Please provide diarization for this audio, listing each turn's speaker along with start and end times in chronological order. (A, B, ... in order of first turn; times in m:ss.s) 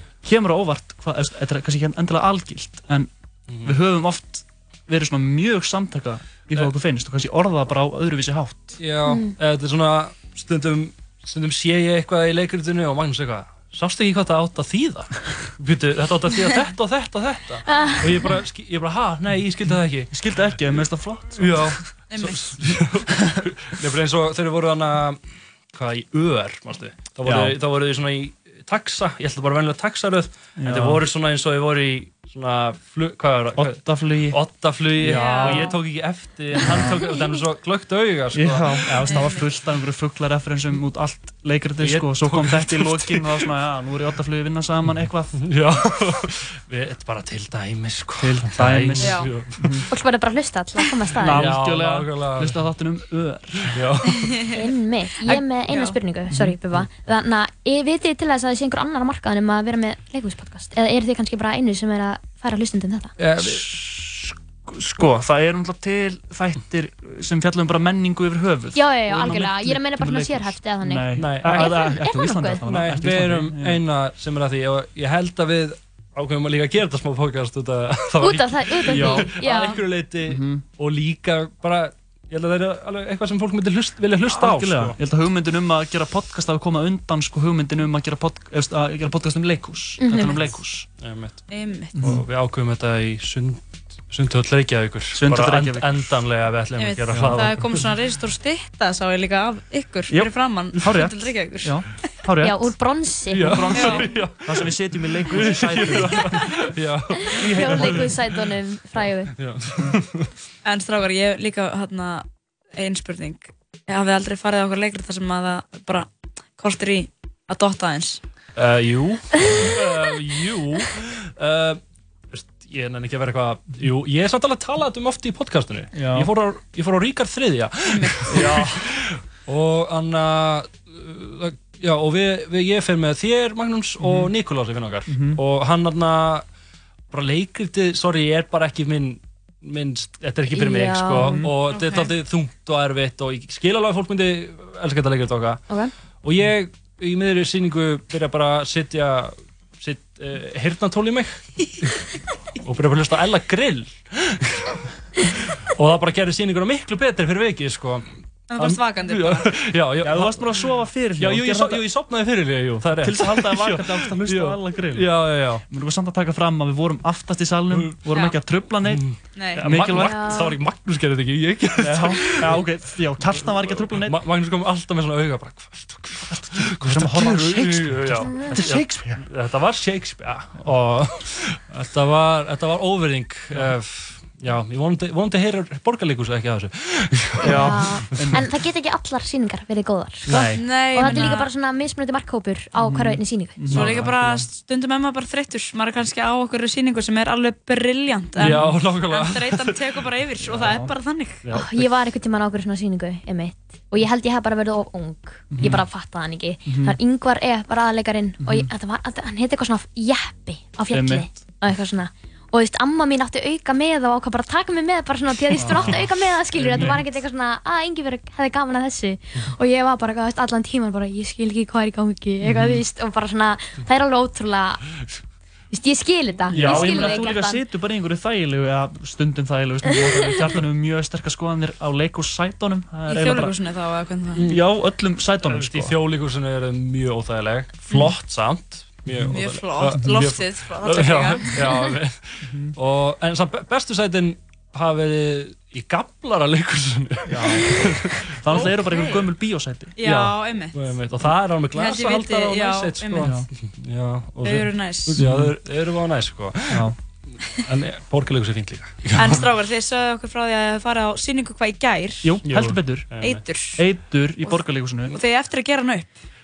0:00.2-0:03.1 A
0:03.5-0:03.8 B
0:03.6-0:08.8 A
0:08.8-0:20.3 B
0:09.0-0:09.4 C
0:17.6-0:18.2 C
0:19.6-0:22.0 A
0:21.3-0:39.2 B
0:22.1-0:22.5 D
0:27.2-0:27.6 A
0:30.6-0:31.0 A
0:33.5-0:35.8 A
0:35.0-0:35.7 D
0:36.6-0:37.0 A
0:38.3-0:45.4 A
0:39.0-0:39.5 D
0:41.8-0:43.5 B
0:44.9-0:49.8 B
0:48.2-0:49.8 A
0:49.0-0:49.3 D
0:49.9-0:51.5 C
0:51.1-0:53.7 A
0:51.2-0:52.6 B
0:53.6-0:54.5 B
0:54.5-1:03.1 C
0:55.7-0:55.9 D
0:56.3-0:56.8 A
1:03.2-1:03.6 B
1:03.4-1:13.8 A
1:08.7-1:12.6 C
1:11.1-1:12.1 B
1:12.6-1:25.0 B
1:18.2-1:19.8 C
1:18.9-1:20.6 A
1:24.2-1:30.9 A
1:30.0-1:30.4 C
1:30.9-1:31.4 B
1:31.5-1:32.0 D
1:32.0-1:32.2 A
1:32.0-1:37.9 B
1:35.1-1:36.2 A
1:36.8-1:41.8 D
1:37.1-1:37.5 A
1:40.1-1:42.8 A
1:42.4-1:43.9 C
1:43.3-1:44.7 B
1:43.3-1:46.3 A
1:43.7-1:44.1 D
1:45.2-1:48.4 B
1:47.4-1:49.3 C
1:47.4-1:48.1 A
1:49.4-1:50.3 B
1:50.6-1:52.2 D
1:52.8-1:58.2 D
1:58.6-2:01.8 B
2:02.3-2:16.4 B
2:05.9-2:06.3 A
2:07.9-2:08.5 D
2:08.4-2:08.7 A
2:14.0-2:14.3 A
2:15.0-2:15.4 A
2:17.1-2:25.6 B
2:20.5-2:21.5 C
2:21.7-2:22.1 D
2:26.2-2:32.1 B
2:32.6-2:34.7 B
2:35.8-2:38.0 B
2:38.5-2:39.5 D
2:38.6-2:40.5 B
2:40.0-2:41.9 A
2:41.2-2:45.6 B
2:42.9-2:49.0 A
2:47.7-2:48.0 B
2:48.1-2:48.4 D
2:48.7-2:52.6 B
2:49.3-2:49.7 D
2:49.6-2:50.4 A
2:49.9-2:50.6 C
2:51.8-2:54.1 A
2:53.3-3:08.2 B
2:56.3-2:59.2 A
2:58.2-2:58.6 C
3:07.4-3:13.7 C
3:07.4-3:08.5 A
3:10.2-3:11.2 A
3:10.3-3:11.5 D
3:12.8-3:14.1 A
3:13.6-3:14.4 B
3:13.7-3:21.4 D
3:18.4-3:20.7 B
3:21.4-3:21.9 B
3:21.5-3:44.8 C
3:25.5-3:25.9 A
3:26.6-3:27.0 A
3:28.4-3:28.7 A
3:30.9-3:31.3 A
3:35.6-3:36.1 A
3:35.8-3:37.0 B
3:36.6-3:37.0 A
3:42.4-3:42.7 A
3:45.7-3:47.6 C
3:46.5-3:53.6 A
3:53.1-3:54.5 D
3:54.4-3:54.8 B
3:54.4-3:56.0 A
3:55.4-4:08.1 B
3:57.9-3:58.2 A
3:59.3-4:01.8 D
4:02.5-4:02.7 A
4:07.3-4:10.3 A
4:08.5-4:09.4 D
4:10.0-4:11.0 D
4:10.7-4:16.9 B
4:11.7-4:13.4 D
4:13.2-4:13.5 A
4:14.4-4:15.2 D
4:15.2-4:15.6 A
4:17.4-4:19.5 B
4:19.1-4:22.4 D
4:22.2-4:23.2 A
4:22.4-4:23.4 B
4:23.1-4:23.8 D
4:23.8-4:25.2 A
4:24.4-4:26.1 D